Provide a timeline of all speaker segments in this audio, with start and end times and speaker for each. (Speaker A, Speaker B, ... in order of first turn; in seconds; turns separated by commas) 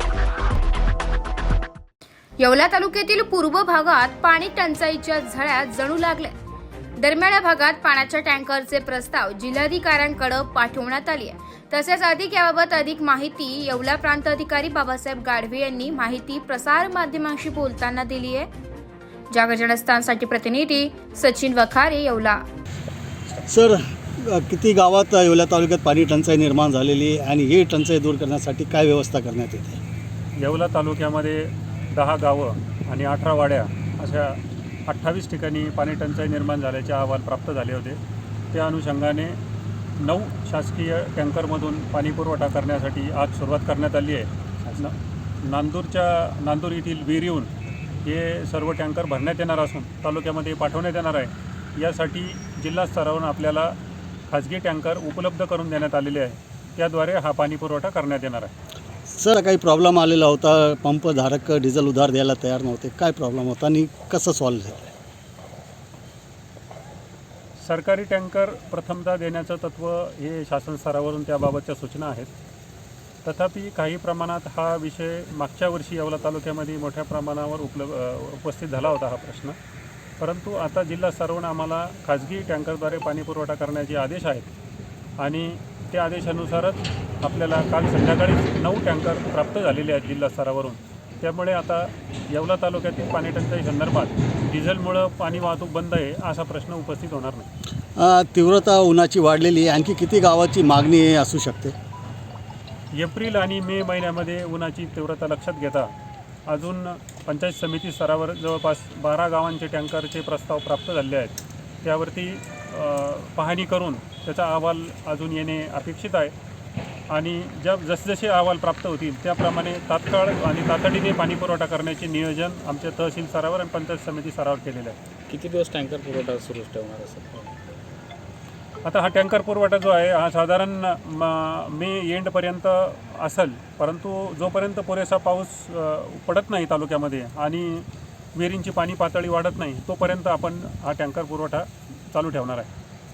Speaker A: 2.4-6.3, Speaker A: 7.0-18.5, Speaker A: 19.3-22.4, Speaker B: 23.4-29.8, Speaker C: 30.4-38.0, Speaker C: 38.5-39.4, Speaker C: 40.0-47.5, Speaker C: 48.0-53.8, Speaker C: 54.3-58.5, Speaker B: 59.1-64.9, Speaker C: 67.6-72.3, Speaker C: 73.2-79.6, Speaker C: 80.2-84.5, Speaker C: 85.2-97.5, Speaker B: 98.0-101.8, Speaker C: 102.9-105.9, Speaker C: 106.5-116.3, Speaker C: 117.1-125.0, Speaker D: 125.3-127.5, Speaker C: 128.8-142.7